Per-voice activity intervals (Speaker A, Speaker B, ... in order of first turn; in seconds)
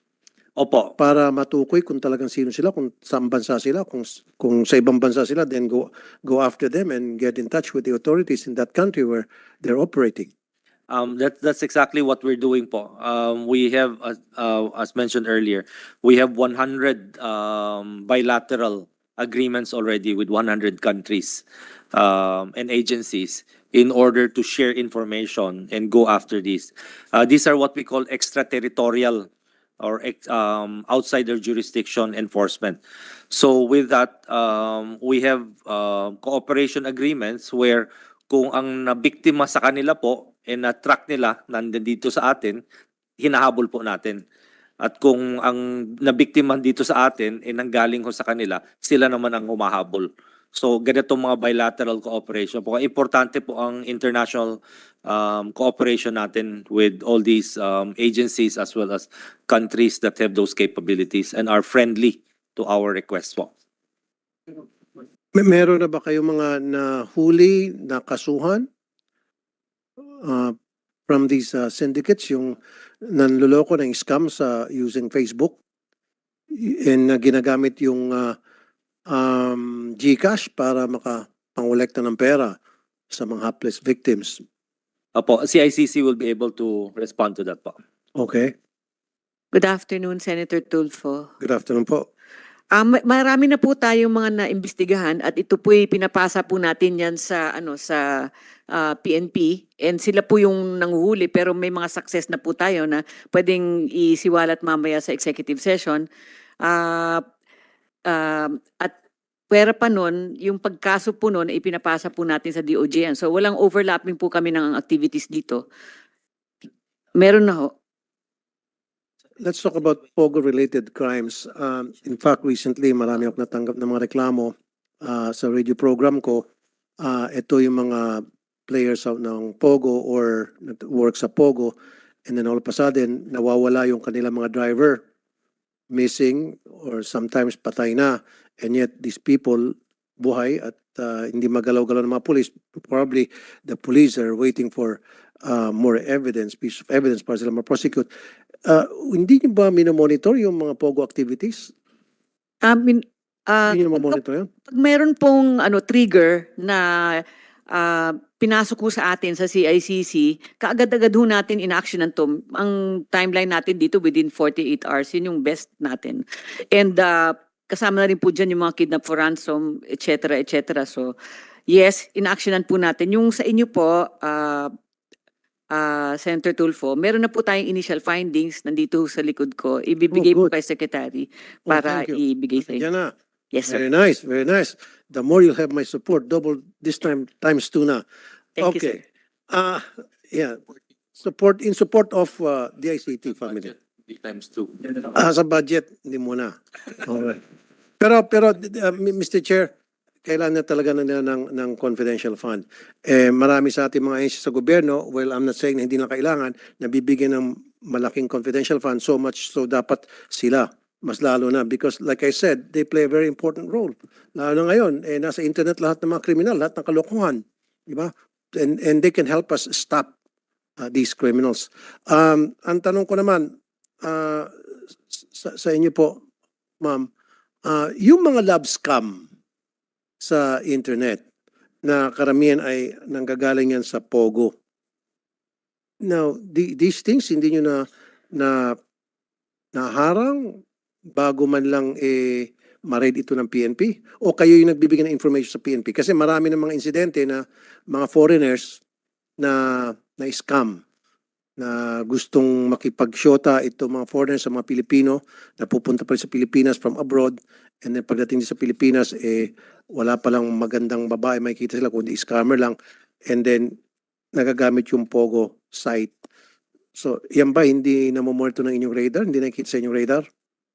Speaker A: 0.6-0.9, 10.9-21.4, 21.9-29.3, 29.8-32.8, 33.3-42.6, 43.2-44.2, 44.8-63.5, 85.1-87.8
Speaker B: 1.0-10.3, 65.3-68.6, 70.2-70.5, 71.1-75.6, 76.5-78.3, 79.1-82.5, 83.1-84.4, 88.2-88.5, 91.4-92.0, 119.4-126.5, 127.0-131.7, 132.2-135.0, 135.9-148.1, 148.7-151.7, 153.7-154.5, 180.1-180.5, 181.7-183.1, 183.7-188.0, 188.6-190.6, 191.2-193.7, 194.8-197.4, 198.0-199.7, 200.2-220.1, 220.8-223.5, 224.0-224.5, 225.1-226.2, 226.8-227.1, 227.6-229.2, 230.2-231.2, 231.8-234.5, 236.0-238.8, 239.7-240.6, 241.2-248.8, 249.4-250.8, 251.6-262.8, 263.3-263.7, 264.3-266.1, 266.9-270.2
Speaker C: 89.5-91.3, 92.7-106.0, 106.6-107.2, 108.1-108.9, 109.5-115.6, 117.1-117.7, 152.6-157.2, 157.7-171.1, 171.7-174.7, 175.7-182.8, 183.5-183.8, 188.6-189.0